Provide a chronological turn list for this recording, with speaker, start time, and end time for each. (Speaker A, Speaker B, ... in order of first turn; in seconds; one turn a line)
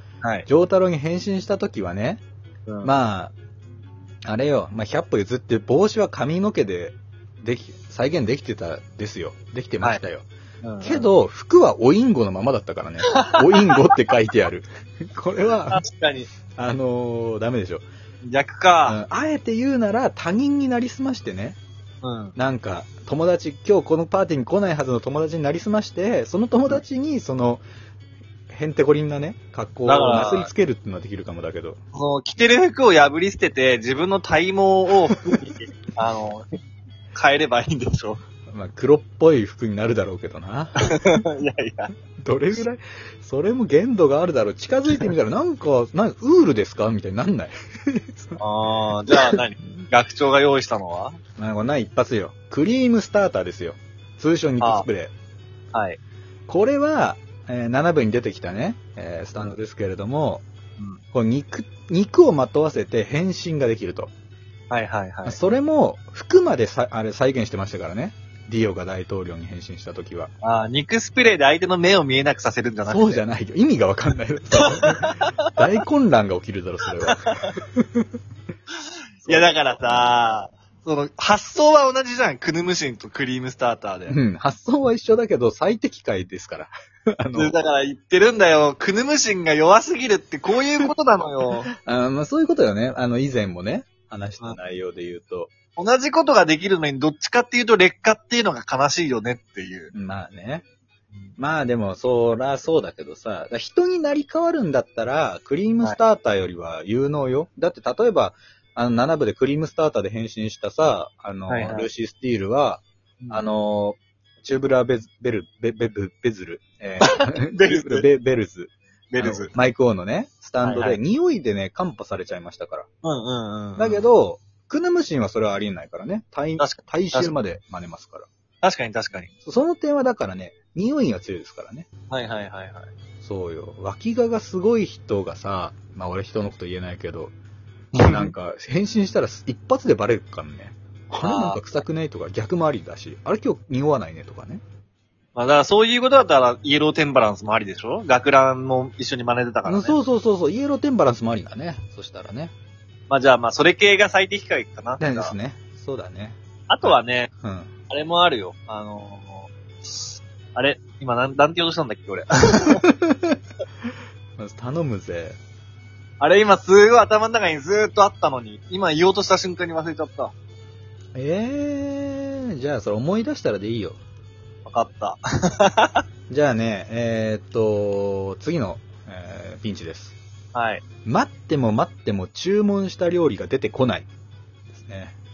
Speaker A: 0.5-2.2
Speaker A: 2.8-3.3
Speaker A: 4.2-10.3
Speaker B: 10.6-11.1
Speaker A: 10.8-15.8
Speaker B: 13.1-13.4
Speaker B: 15.7-16.3
Speaker A: 16.5-17.8
Speaker B: 18.2-19.0
Speaker A: 18.9-21.6
Speaker B: 22.0-22.4
Speaker A: 22.4-27.6
Speaker A: 28.5-31.8
Speaker B: 29.9-30.5
Speaker B: 31.9-36.5
Speaker B: 37.1-38.2
Speaker A: 38.5-41.2
Speaker B: 40.8-41.9
Speaker A: 42.2-48.4
Speaker B: 48.4-51.2
Speaker A: 49.1-49.9
Speaker A: 51.4-55.1
Speaker B: 54.6-54.9
Speaker B: 55.7-56.0
Speaker A: 56.5-60.4
Speaker A: 61.1-64.1
Speaker B: 64.7-65.4
Speaker A: 65.2-70.3
Speaker B: 70.4-73.2
Speaker A: 72.9-78.1
Speaker B: 74.7-75.3
Speaker B: 77.1-77.5
Speaker B: 79.2-84.2
Speaker A: 79.2-79.9
Speaker A: 84.1-87.6
Speaker B: 87.3-91.7
Speaker A: 91.8-95.5
Speaker B: 95.8-99.9
Speaker A: 99.9-100.6
Speaker A: 101.4-122.9
Speaker B: 111.5-111.9
Speaker B: 117.0-118.0
Speaker B: 119.1-119.5
Speaker B: 120.6-121.0
Speaker B: 123.0-124.1
Speaker A: 123.8-128.3
Speaker B: 126.6-127.3
Speaker B: 128.6-129.3
Speaker A: 129.4-131.9
Speaker B: 132.1-132.9
Speaker A: 133.2-137.3
Speaker B: 137.9-138.3
Speaker A: 138.0-144.6
Speaker B: 141.2-141.7
Speaker B: 145.3-149.9
Speaker A: 149.7-152.5
Speaker B: 153.1-155.3
Speaker A: 155.0-157.7
Speaker B: 156.7-157.3
Speaker B: 157.9-162.8
Speaker A: 162.7-163.4
Speaker A: 164.4-165.4
Speaker B: 166.2-170.3
Speaker A: 171.2-174.0
Speaker B: 174.7-176.0
Speaker A: 176.3-180.2
Speaker B: 180.5-180.8
Speaker A: 181.1-184.1
Speaker A: 184.7-185.2